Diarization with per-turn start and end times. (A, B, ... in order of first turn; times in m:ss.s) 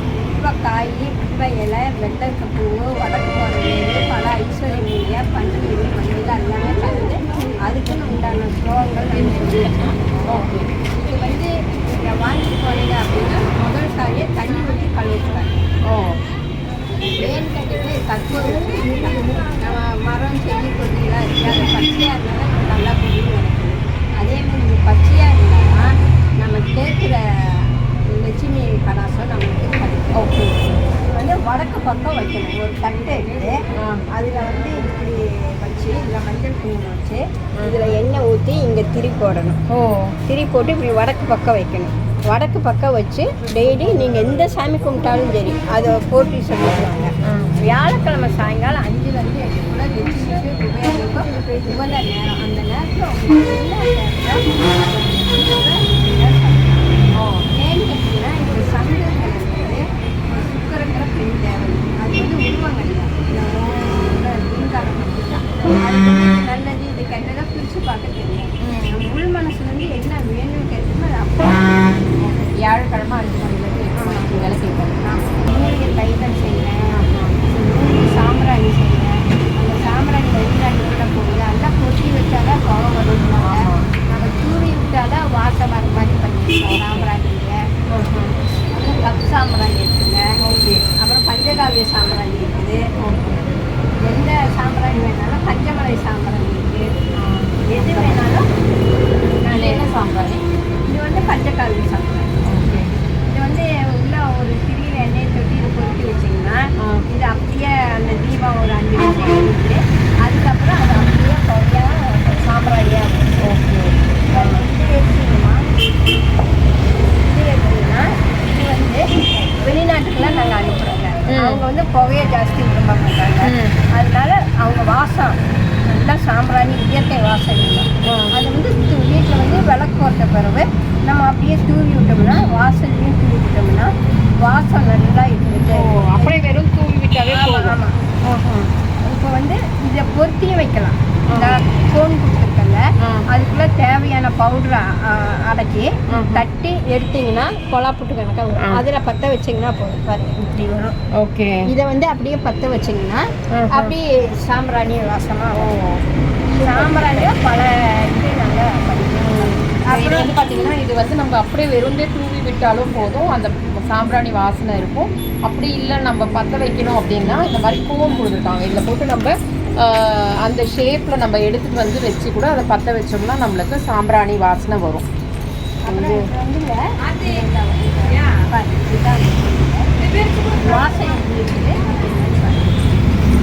0:00.2-0:09.9 A
0:09.1-0:10.7 B
0:11.0-0:15.6 A
0:15.9-0:16.2 B
0:17.2-0:25.8 A
0:26.4-0:30.3 A
0:30.1-0:30.8 B
0:31.1-0:33.5 A
0:33.8-0:34.0 B
0:34.1-0:39.6 A
0:39.7-0:40.1 B
0:40.3-1:11.8 A
0:47.2-0:47.6 B
0:57.1-0:57.5 B
1:08.6-1:09.0 B
1:12.2-1:15.0 B
1:13.9-1:16.8 A
1:16.9-1:17.4 B
1:17.5-1:27.6 A
1:23.4-1:23.8 B
1:26.8-1:27.1 B
1:27.9-1:28.3 B
1:28.7-1:32.8 A
1:30.4-1:30.8 B
1:33.0-1:33.5 B
1:34.0-1:36.8 A
1:37.1-1:38.2 B
1:37.7-1:38.4 A
1:39.4-1:40.0 A
1:39.4-1:40.4 B
1:40.9-1:42.3 A
1:42.4-1:42.9 B
1:43.3-1:53.3 A
1:46.8-1:47.1 B
1:53.4-1:54.6 B
1:54.3-1:55.6 A
1:57.0-2:16.4 A
2:01.3-2:01.6 B
2:03.4-2:03.8 B
2:08.0-2:08.4 B
2:15.7-2:18.7 B
2:17.3-2:17.9 A
2:19.0-2:31.0 A
2:21.3-2:21.6 B
2:26.1-2:26.4 B
2:28.6-2:28.8 B
2:31.2-2:31.7 B
2:31.6-2:35.7 A
2:33.5-2:33.9 B
2:35.6-2:36.0 B
2:36.5-2:40.4 A
2:36.6-2:37.4 B
2:39.2-2:55.0 B
2:55.8-3:03.1 A
2:55.9-2:56.3 B